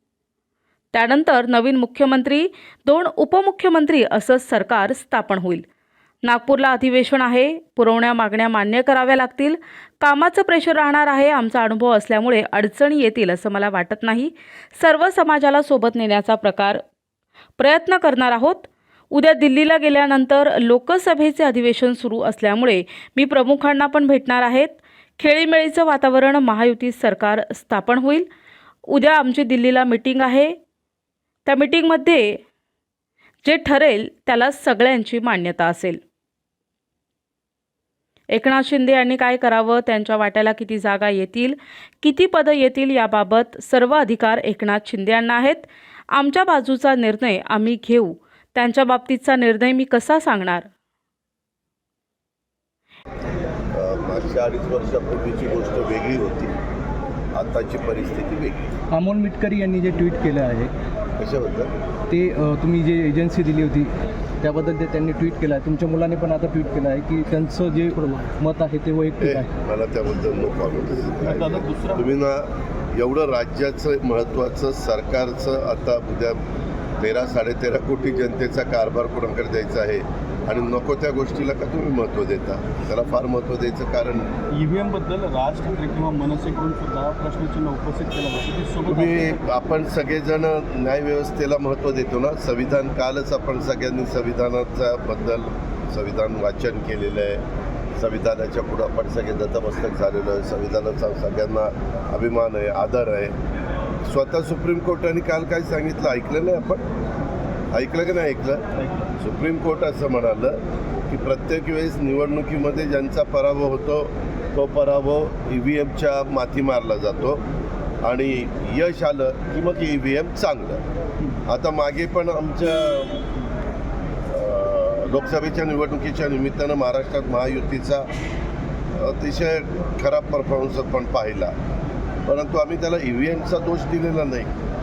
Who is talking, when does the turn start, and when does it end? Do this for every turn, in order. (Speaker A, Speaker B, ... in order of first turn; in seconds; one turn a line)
Speaker A: 0.9-5.7
Speaker A: 6.2-16.8
Speaker A: 17.6-28.3
Speaker A: 28.9-30.6
Speaker A: 31.4-32.4
Speaker A: 33.4-36.0
Speaker A: 38.3-50.7
Speaker B: 53.7-56.5
Speaker B: 57.3-58.7
Speaker C: 58.9-60.7
Speaker B: 61.2-61.7
Speaker C: 62.1-69.5
Speaker B: 69.2-76.4
Speaker D: 71.2-72.1
Speaker B: 77.0-84.3
Speaker D: 84.5-89.3
Speaker B: 88.9-97.4
Speaker B: 98.0-103.3
Speaker B: 104.0-106.8
Speaker B: 107.7-108.7
Speaker B: 109.2-117.4
Speaker B: 118.0-120.8
Speaker B: 121.5-123.2
Speaker B: 124.3-128.1
Speaker B: 129.0-131.5
Speaker B: 132.2-134.5